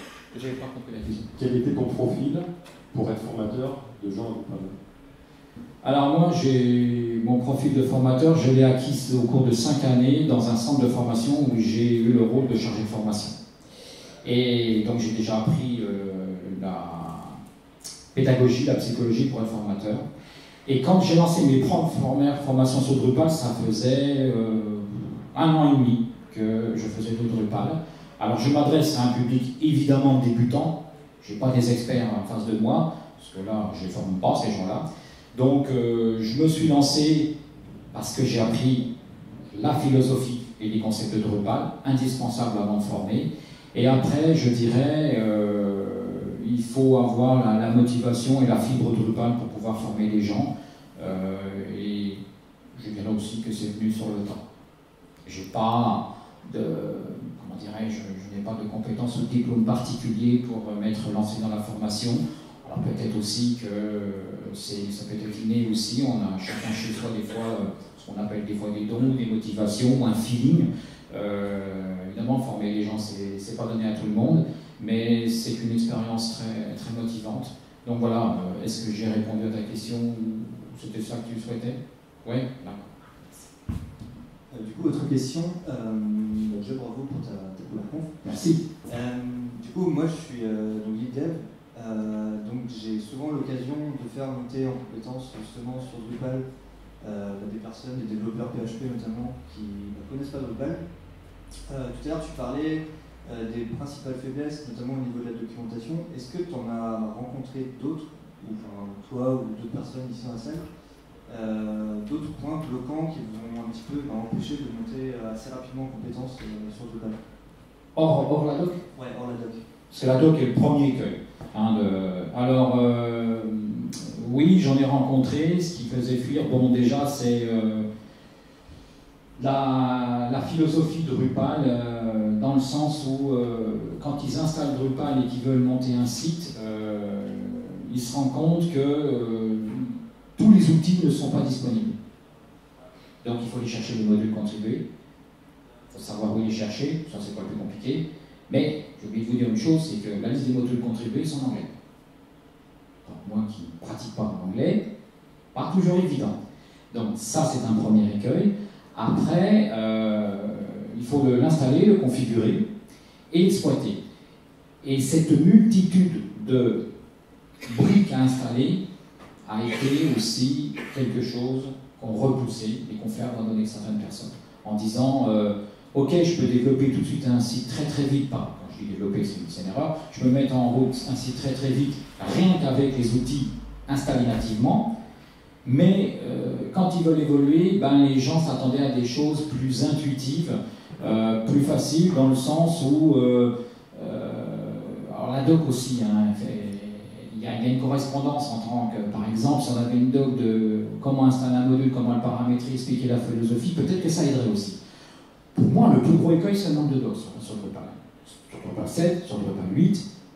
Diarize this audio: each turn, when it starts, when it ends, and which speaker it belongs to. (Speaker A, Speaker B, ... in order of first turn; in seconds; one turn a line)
Speaker A: 0.3-1.3
Speaker B: 1.4-4.8
Speaker A: 5.8-13.4
Speaker A: 14.2-17.4
Speaker A: 18.1-20.0
Speaker A: 20.7-37.3
Speaker A: 37.9-38.9
Speaker A: 39.5-52.2
Speaker A: 52.7-54.4
Speaker A: 55.2-82.9
Speaker C: 84.5-88.1
Speaker A: 88.2-88.6
Speaker C: 88.9-96.4
Speaker C: 97.0-100.8
Speaker C: 101.7-110.7
Speaker C: 111.3-117.2
Speaker A: 117.9-118.8
Speaker C: 118.9-119.6
Speaker A: 119.9-127.9
Speaker A: 129.4-142.0
Speaker A: 143.2-144.8
Speaker A: 145.9-151.7
Speaker A: 153.0-154.8
Speaker A: 155.5-156.4
Speaker A: 156.9-162.7
Speaker A: 163.3-164.0
Speaker A: 164.8-166.8
Speaker A: 167.7-168.8
Speaker A: 169.4-184.9
Speaker A: 185.6-204.8
Speaker A: 205.5-210.0